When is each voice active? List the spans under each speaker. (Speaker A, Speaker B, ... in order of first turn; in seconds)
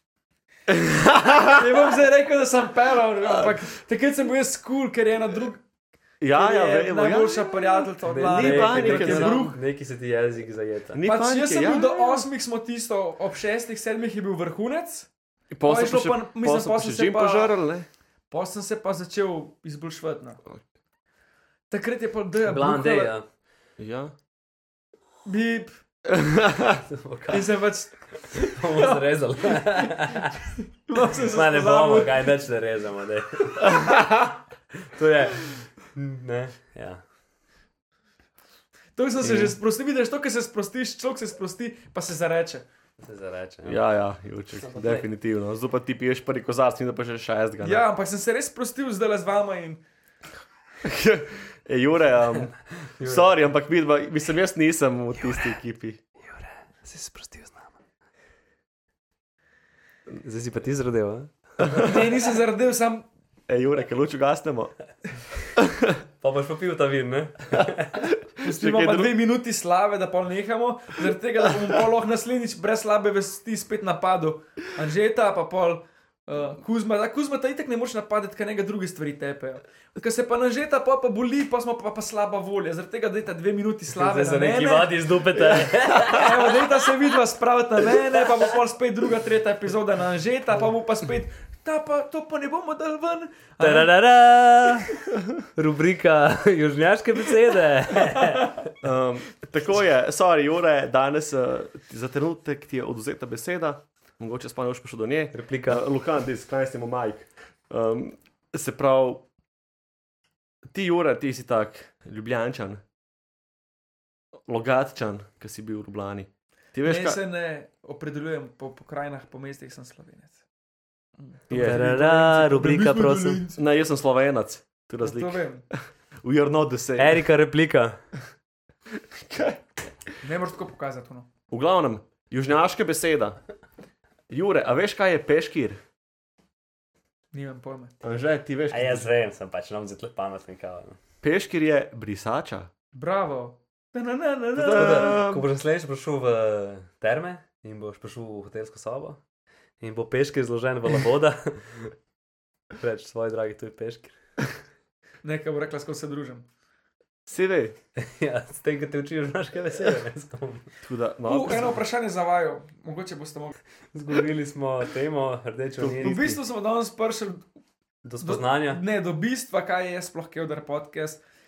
Speaker A: 0.7-1.7, 3.2-3.6, 6.2-9.4, 10.9-12.2, 15.5-17.9, 23.8-24.1, 26.1-26.8, 39.2-39.6, 43.6-47.9, 50.8-56.0, 61.6-61.9, 63.5-64.8, 65.5-65.9, 67.6-69.1, 98.8-109.3, 110.7-112.8, 114.5-117.2, 121.5-121.8, 123.5-125.4, 126.2-127.2, 129.1-129.6, 131.5-133.4, 134.3-135.8, 138.0-139.1, 141.2-142.7, 144.5-145.4, 157.2-157.8, 160.8-161.8, 165.8-166.4
Speaker B: 1.4-5.6, 6.3-9.6, 11.0-15.1, 15.6-17.6, 18.3-20.4, 21.7-23.1, 25.2-25.8, 27.3-29.0, 29.5-29.8, 30.9-32.3, 39.0-42.6, 47.6-49.8, 61.7-63.1, 68.4-93.9, 116.8-120.4, 121.2-123.6, 125.0-125.6, 130.2-131.3, 137.3-137.9, 142.9-145.2, 155.2-156.4, 161.2-163.6, 165.9-167.4, 168.2-171.2
Speaker C: 8.0-11.0, 22.4-23.2, 26.9-27.6, 28.1-30.4, 30.9-34.2, 34.8-37.0, 43.0-43.8, 44.6-45.1, 52.5-53.3, 56.2-57.8, 60.2-61.8, 66.2-68.0, 83.9-86.6, 93.6-94.9, 95.5-98.7, 105.3-105.8, 121.5-123.4, 127.0-128.0, 138.7-141.0, 144.7-149.2, 149.8-151.9, 152.8-154.2, 157.9-160.7, 163.9-166.3, 168.0-168.8